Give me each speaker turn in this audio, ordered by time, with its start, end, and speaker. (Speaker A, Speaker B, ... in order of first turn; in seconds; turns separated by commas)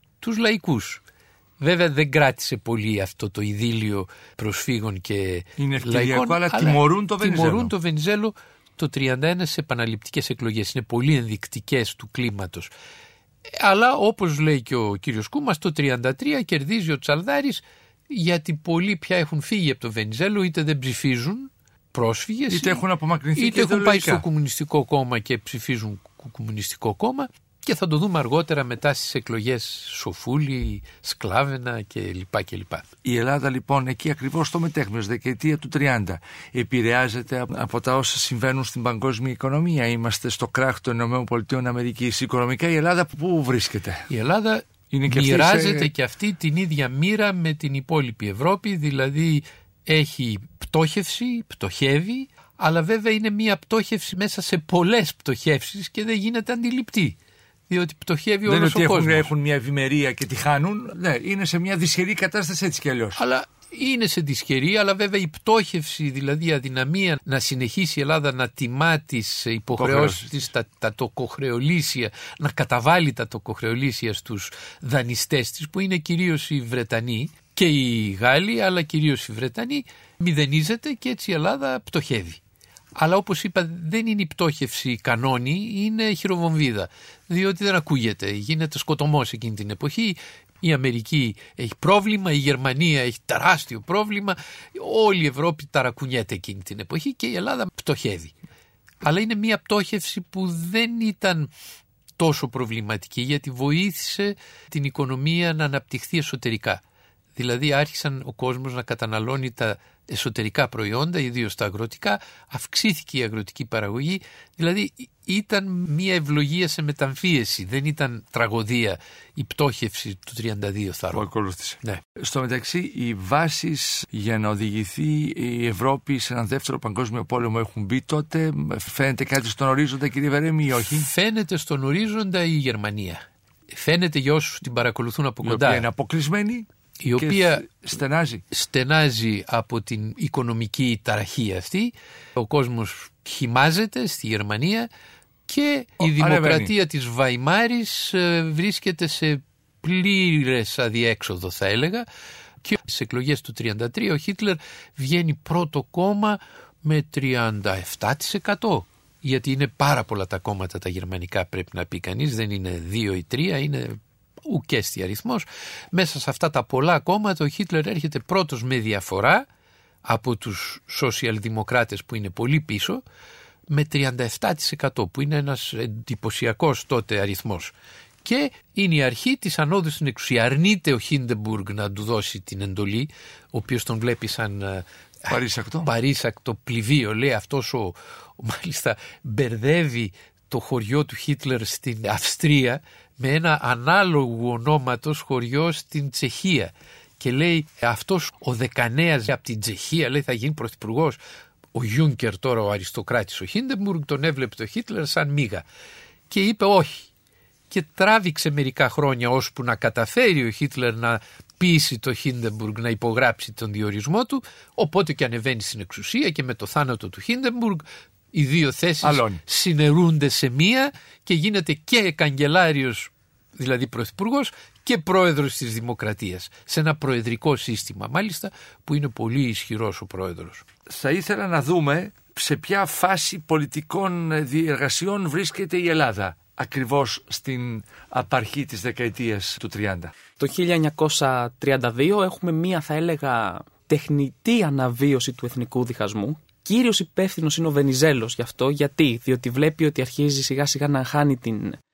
Speaker A: 0.2-1.0, Speaker A: 1.6-12.7, Speaker B: 5.6-7.7, Speaker A: 13.5-22.8, Speaker B: 22.5-24.2, Speaker A: 23.4-32.9, Speaker B: 33.0-44.1, Speaker A: 44.1-57.1, Speaker B: 44.9-45.9, Speaker A: 57.7-59.3, Speaker B: 58.4-63.2, Speaker A: 63.1-82.4, Speaker B: 69.7-70.3, Speaker A: 83.0-98.3, Speaker A: 99.0-101.5, Speaker A: 102.2-106.8, Speaker A: 107.3-121.3, Speaker B: 121.1-131.1, Speaker A: 130.9-135.8, Speaker B: 135.4-138.4, Speaker A: 137.0-137.8, Speaker A: 138.5-144.9, Speaker A: 145.5-152.1, Speaker B: 146.0-146.7, Speaker A: 152.6-169.4, Speaker A: 170.0-173.0, Speaker A: 173.7-177.7, Speaker A: 178.2-201.2, Speaker B: 185.3-185.9, Speaker A: 201.7-205.6, Speaker A: 206.3-207.1, Speaker A: 207.7-230.6, Speaker B: 219.0-219.4, Speaker B: 230.9-240.1, Speaker C: 240.4-251.8